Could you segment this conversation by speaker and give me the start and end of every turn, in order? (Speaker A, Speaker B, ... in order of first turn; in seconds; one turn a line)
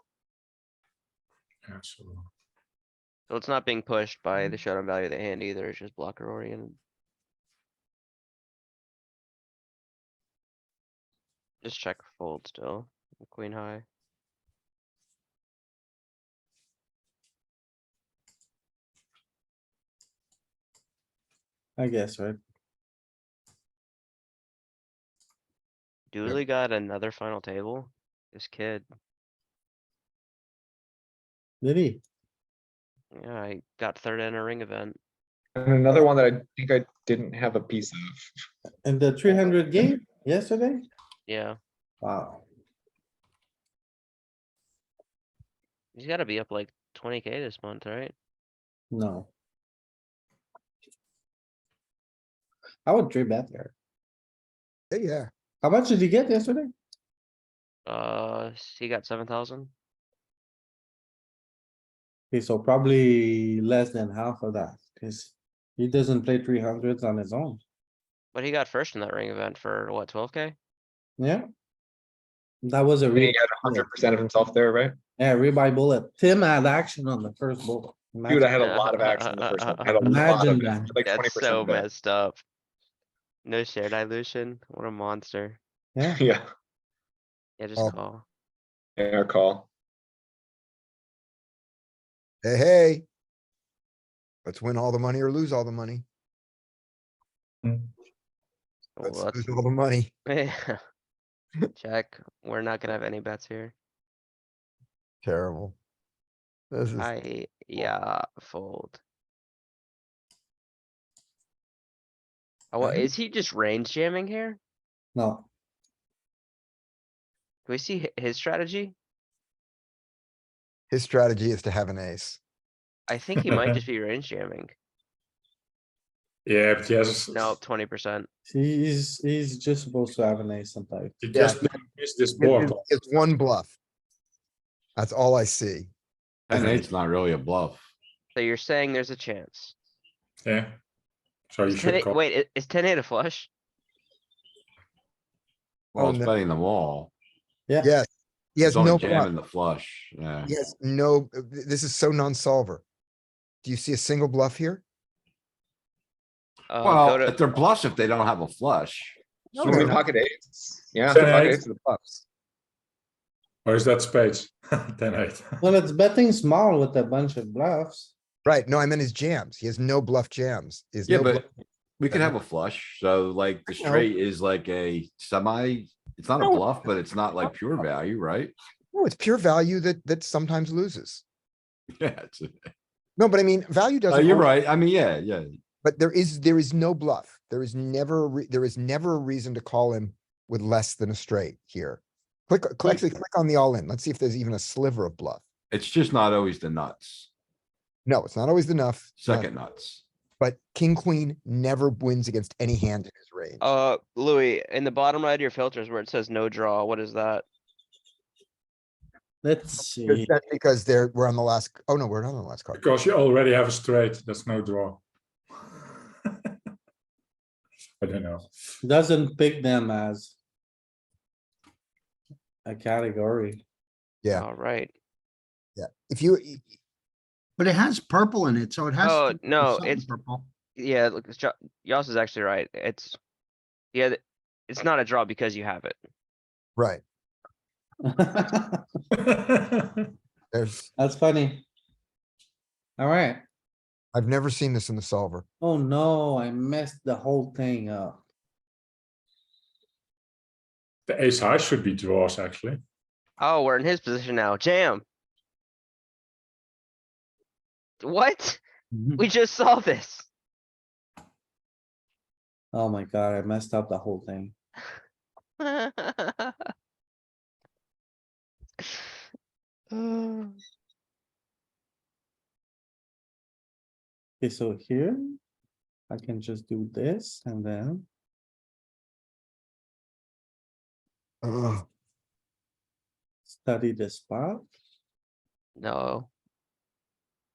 Speaker A: 1.6-2.3
Speaker B: 3.3-6.8
Speaker B: 11.6-13.8
Speaker C: 21.8-22.4
Speaker B: 26.1-28.9
Speaker C: 31.6-32.0
Speaker B: 33.1-35.0
Speaker D: 35.5-38.3
Speaker C: 38.8-40.9
Speaker B: 41.3-41.6
Speaker C: 42.0-42.4
Speaker B: 45.9-48.1
Speaker C: 48.9-49.3
Speaker C: 52.9-53.7
Speaker E: 54.9-55.3
Speaker C: 55.6-56.7
Speaker B: 57.9-59.7
Speaker C: 62.3-67.6
Speaker B: 68.3-70.5
Speaker C: 71.2-71.5
Speaker C: 72.6-73.8
Speaker D: 73.1-75.0
Speaker C: 75.2-78.6
Speaker D: 78.2-81.8
Speaker B: 78.6-80.0
Speaker C: 80.0-80.9
Speaker B: 81.0-82.4
Speaker B: 83.4-85.6
Speaker D: 86.0-86.5
Speaker B: 87.6-88.2
Speaker D: 89.0-89.7
Speaker E: 92.4-93.0
Speaker E: 94.4-96.0
Speaker A: 97.6-97.9
Speaker B: 99.0-99.6
Speaker E: 99.0-100.1
Speaker B: 100.3-100.8
Speaker B: 101.8-103.7
Speaker E: 105.2-105.8
Speaker E: 106.7-107.1
Speaker B: 107.0-109.0
Speaker B: 112.7-114.6
Speaker C: 115.1-115.5
Speaker B: 117.7-118.9
Speaker E: 120.9-122.4
Speaker B: 123.1-124.7
Speaker A: 126.5-127.5
Speaker B: 127.3-128.3
Speaker C: 128.5-131.1
Speaker A: 131.2-132.8
Speaker E: 131.3-131.7
Speaker E: 132.4-133.7
Speaker E: 134.9-135.9
Speaker B: 136.5-136.8
Speaker F: 136.5-137.9
Speaker B: 138.3-139.7
Speaker A: 140.4-140.8
Speaker A: 141.5-142.2
Speaker B: 141.7-143.5
Speaker E: 145.9-146.3
Speaker F: 145.9-147.1
Speaker E: 147.8-149.3
Speaker F: 148.6-150.5
Speaker E: 150.4-152.8
Speaker E: 153.6-154.8
Speaker B: 156.7-157.4
Speaker F: 156.8-160.0
Speaker E: 159.5-160.0
Speaker D: 159.6-162.2
Speaker A: 161.1-161.6
Speaker A: 163.6-165.7
Speaker C: 165.6-168.1
Speaker E: 168.4-171.4
Speaker F: 171.1-171.4
Speaker F: 172.0-178.5
Speaker E: 172.1-172.3
Speaker E: 173.7-174.1
Speaker E: 178.9-181.2
Speaker F: 181.9-182.7
Speaker E: 183.2-184.5
Speaker F: 184.1-185.5
Speaker E: 185.8-195.4
Speaker F: 195.7-197.3
Speaker E: 198.1-199.5
Speaker F: 199.2-200.0
Speaker E: 200.4-203.6
Speaker B: 203.6-207.4
Speaker C: 209.4-210.3
Speaker E: 210.1-212.8
Speaker A: 212.7-215.0
Speaker A: 218.0-218.5
Speaker C: 218.8-220.3
Speaker C: 222.7-223.6
Speaker B: 224.3-224.9
Speaker E: 225.8-226.7
Speaker G: 227.6-230.5
Speaker B: 229.0-230.0
Speaker B: 230.8-233.2
Speaker B: 233.9-236.0
Speaker E: 236.8-237.0
Speaker C: 238.0-238.8
Speaker A: 239.2-240.1
Speaker E: 240.5-240.9
Speaker C: 241.0-241.6
Speaker C: 243.0-243.4
Speaker E: 244.1-245.4
Speaker C: 245.6-248.2
Speaker A: 251.1-252.8
Speaker B: 253.4-255.0
Speaker B: 258.0-258.6
Speaker B: 259.2-260.3
Speaker C: 262.7-264.5
Speaker B: 265.6-266.5
Speaker B: 269.9-270.6
Speaker C: 274.4-275.4
Speaker C: 276.1-278.1
Speaker E: 281.4-281.8
Speaker C: 283.5-284.7
Speaker B: 285.8-286.3